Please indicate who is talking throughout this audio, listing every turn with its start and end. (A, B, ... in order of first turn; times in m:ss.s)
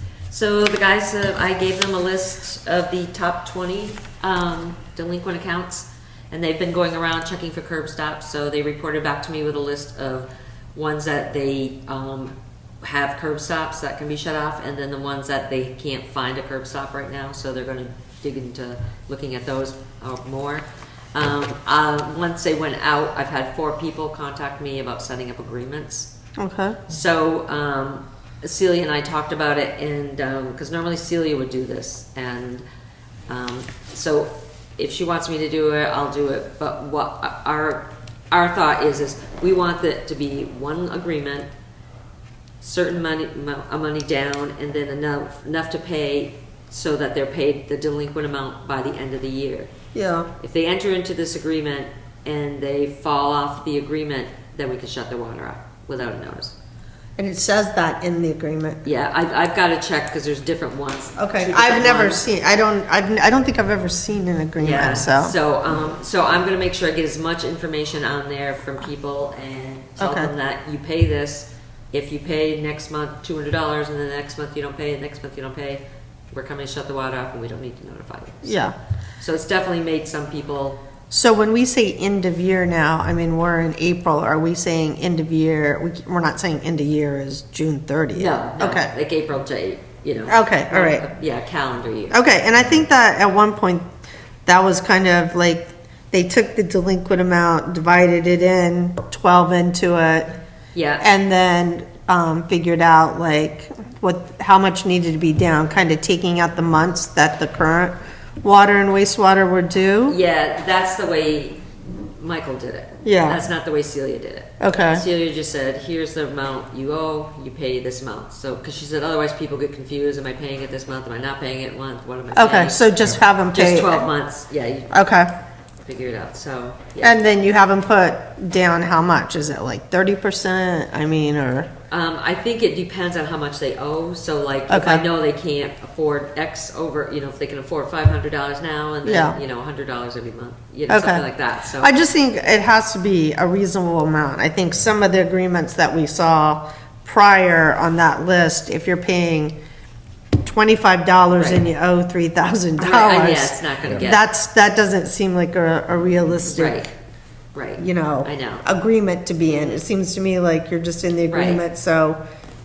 0:00.3-0:26.1 A
0:26.4-0:26.8 B
0:26.9-0:32.6 A
0:33.3-0:41.5 A
0:42.6-0:49.7 A
0:49.9-0:50.3 B
0:50.4-0:56.5 A
0:57.2-0:58.8 B
0:58.8-1:02.2 A
1:01.2-1:05.4 B
1:04.6-1:18.6 A
1:10.0-1:10.3 B
1:18.4-1:18.7 B
1:19.2-1:20.8 A
1:21.1-1:28.9 B
1:28.2-1:32.4 A
1:30.3-1:31.0 B
1:32.1-1:33.8 B
1:34.4-1:40.3 B
1:40.7-1:41.1 A
1:41.0-1:50.2 B
1:50.1-1:51.6 A
1:52.2-2:02.9 A
1:53.0-1:53.4 B
1:54.6-1:55.0 B
2:02.3-2:04.1 B
2:03.5-2:04.9 A
2:04.9-2:05.3 B
2:05.8-2:07.2 A
2:07.0-2:11.7 B
2:11.9-2:21.9 A
2:14.7-2:15.0 B
2:19.0-2:19.4 B
2:20.9-2:21.2 B
2:21.8-2:29.6 B
2:30.4-2:36.8 B
2:31.4-2:31.6 A
2:32.8-2:34.2 A
2:36.5-2:36.9 A
2:37.5-2:38.6 A
2:37.8-2:42.2 B
2:39.5-2:39.8 A
2:41.3-2:41.6 A